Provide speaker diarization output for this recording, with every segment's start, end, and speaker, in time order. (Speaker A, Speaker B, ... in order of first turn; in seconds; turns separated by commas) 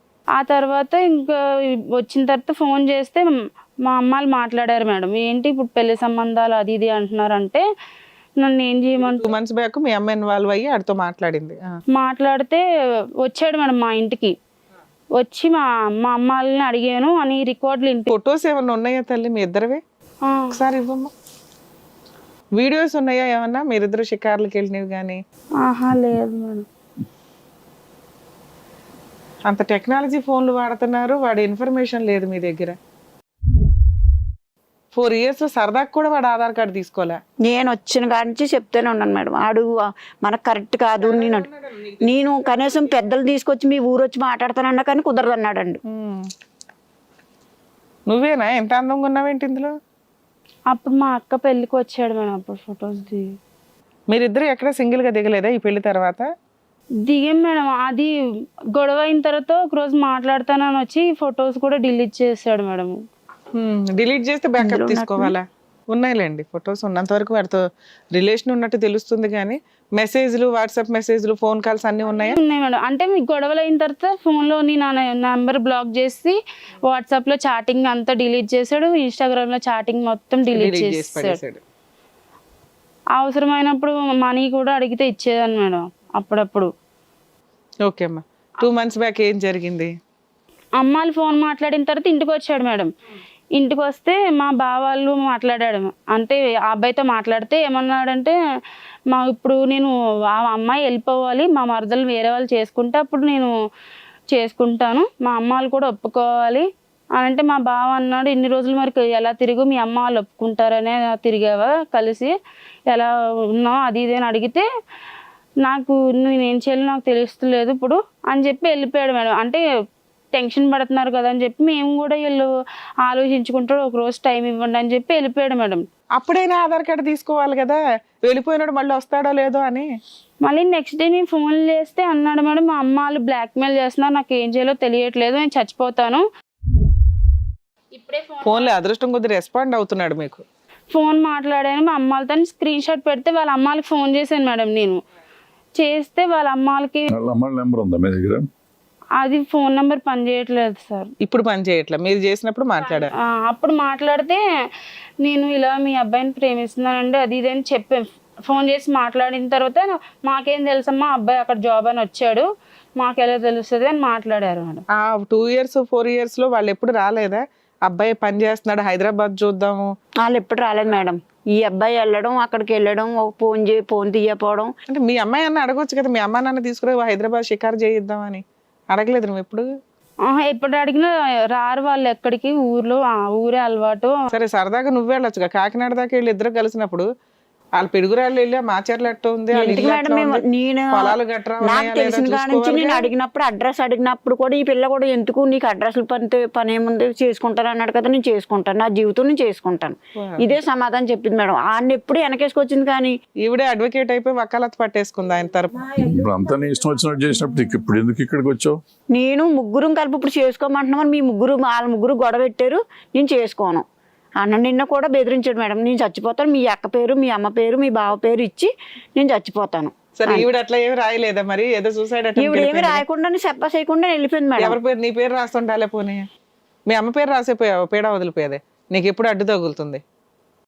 Speaker A: 0.4-1.4, Speaker A: 1.9-3.3, Speaker A: 3.9-7.6, Speaker A: 8.4-9.3, Speaker B: 9.1-11.7, Speaker A: 11.9-12.6, Speaker A: 13.2-14.3, Speaker A: 15.2-18.1, Speaker B: 18.1-19.8, Speaker A: 20.2-20.5, Speaker B: 20.5-21.1, Speaker B: 22.6-25.2, Speaker A: 25.6-26.6, Speaker B: 29.5-32.8, Speaker B: 34.9-37.2, Speaker C: 37.4-41.5, Speaker B: 41.0-43.0, Speaker C: 42.0-45.8, Speaker B: 45.9-46.2, Speaker B: 48.1-49.7, Speaker A: 50.7-53.3, Speaker B: 54.1-56.3, Speaker A: 57.1-58.1, Speaker A: 58.8-63.0, Speaker B: 63.6-72.4, Speaker C: 64.6-65.3, Speaker A: 72.2-76.4, Speaker A: 76.9-81.4, Speaker B: 80.5-81.6, Speaker A: 83.2-86.7, Speaker B: 87.8-89.9, Speaker A: 90.8-92.9, Speaker A: 93.6-98.3, Speaker A: 99.1-103.5, Speaker A: 104.3-106.7, Speaker A: 107.2-112.3, Speaker A: 112.9-114.7, Speaker A: 115.6-119.6, Speaker A: 120.3-122.5, Speaker A: 123.0-125.8, Speaker B: 126.2-129.9, Speaker A: 130.4-136.2, Speaker A: 137.9-138.7, Speaker B: 138.4-140.4, Speaker A: 140.9-145.0, Speaker A: 145.8-147.1, Speaker D: 147.1-148.5, Speaker A: 149.2-151.1, Speaker B: 151.2-153.1, Speaker A: 153.0-154.4, Speaker A: 155.2-164.8, Speaker B: 165.0-169.9, Speaker C: 170.2-174.7, Speaker B: 174.9-179.7, Speaker A: 180.3-184.2, Speaker B: 184.3-187.1, Speaker B: 187.8-190.4, Speaker C: 189.5-203.1, Speaker B: 190.9-193.1, Speaker B: 200.2-200.6, Speaker B: 203.4-205.8, Speaker D: 205.9-208.8, Speaker C: 209.1-213.8, Speaker C: 214.4-220.5, Speaker B: 220.2-223.0, Speaker C: 222.4-224.8, Speaker B: 224.6-226.2, Speaker B: 226.9-230.0